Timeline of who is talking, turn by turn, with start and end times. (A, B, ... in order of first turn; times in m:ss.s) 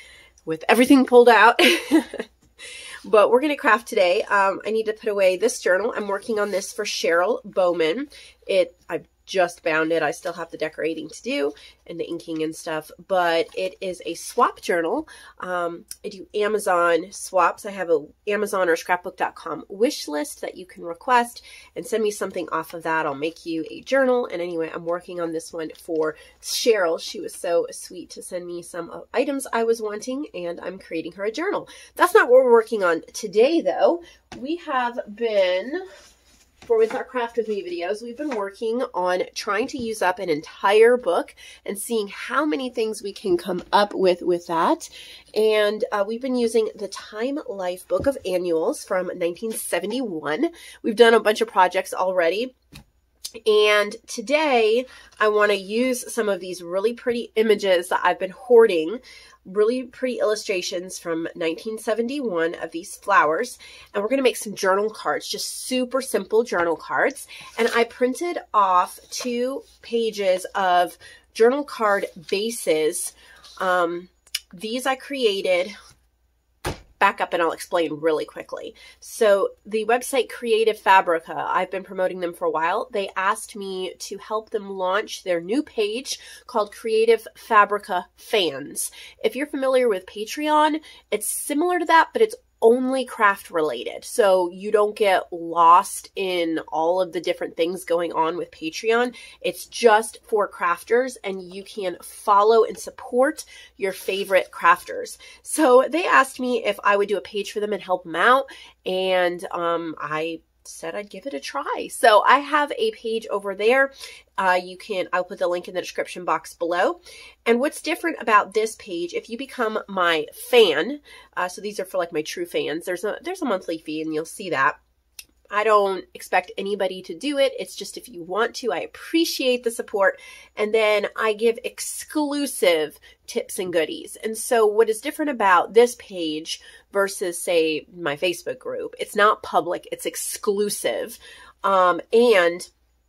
0:00.5-0:02.3 A
0:03.0-0:35.8 A
0:36.6-0:52.5 A
0:53.4-1:15.8 A
1:17.0-2:04.8 A
2:05.5-2:22.7 A